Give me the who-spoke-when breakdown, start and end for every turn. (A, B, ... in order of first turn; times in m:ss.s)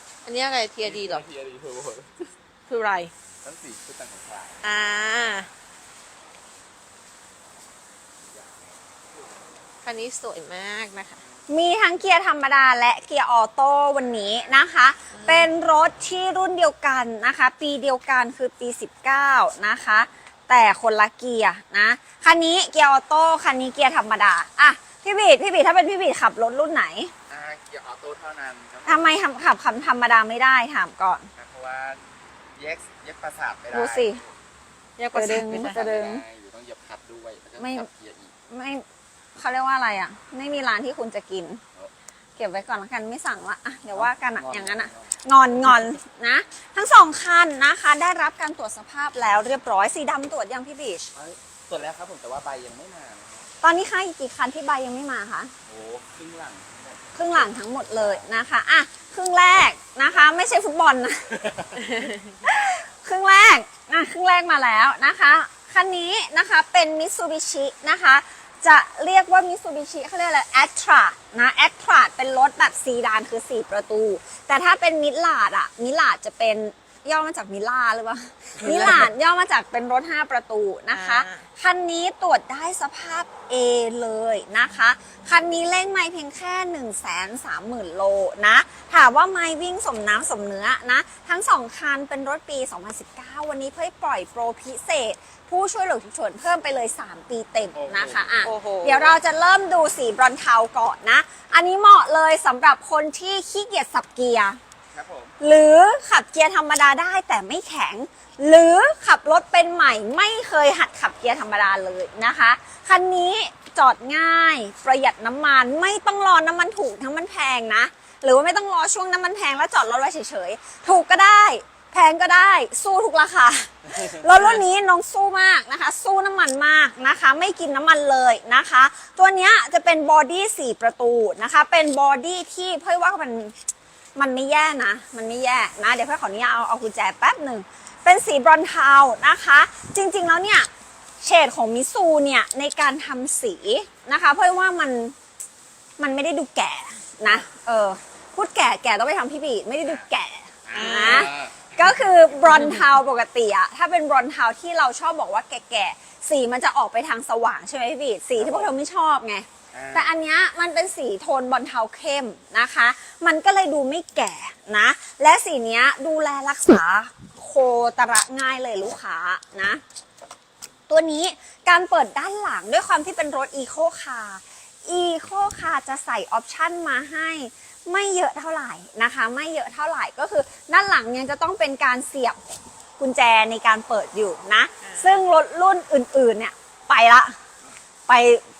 0:00.2-0:01.2 A
0:00.8-0:02.3 B
0:02.7-0:03.1 A
0:03.4-0:04.8 B
0:04.6-0:05.5 A
0:08.2-0:09.6 B
0:09.8-0:11.2 A
0:11.5-0:27.1 C
0:15.1-0:15.5 A
0:27.3-0:29.1 B
0:28.8-0:31.3 C
0:31.4-0:32.0 B
0:32.5-0:34.4 B
0:33.7-0:34.2 C
0:35.0-0:36.2 C
0:35.1-0:35.8 A
0:35.2-0:38.3 B
0:37.6-0:37.9 C
0:38.5-0:38.8 C
0:39.4-0:41.6 C
0:42.4-0:51.1 C
0:43.9-0:45.2 B
0:51.1-0:53.5 B
0:53.6-0:55.5 C
0:55.6-0:58.3 B
0:57.1-1:01.3 C
1:01.3-1:02.0 B
1:01.9-1:02.1 A
1:02.4-1:44.6 C
1:18.6-1:19.1 B
1:20.9-1:21.4 A
1:37.7-1:38.4 B
1:38.4-1:39.2 A
1:44.9-1:45.3 B
1:45.4-2:13.5 C
2:04.3-2:04.6 A
2:14.2-2:20.7 C
2:21.2-2:25.1 C
2:26.0-2:49.8 C
2:30.6-2:32.3 B
2:30.7-2:31.3 A
2:38.4-2:38.8 B
2:39.7-2:40.1 B
2:50.9-3:07.4 C
3:04.8-3:05.2 A
3:08.1-3:08.4 C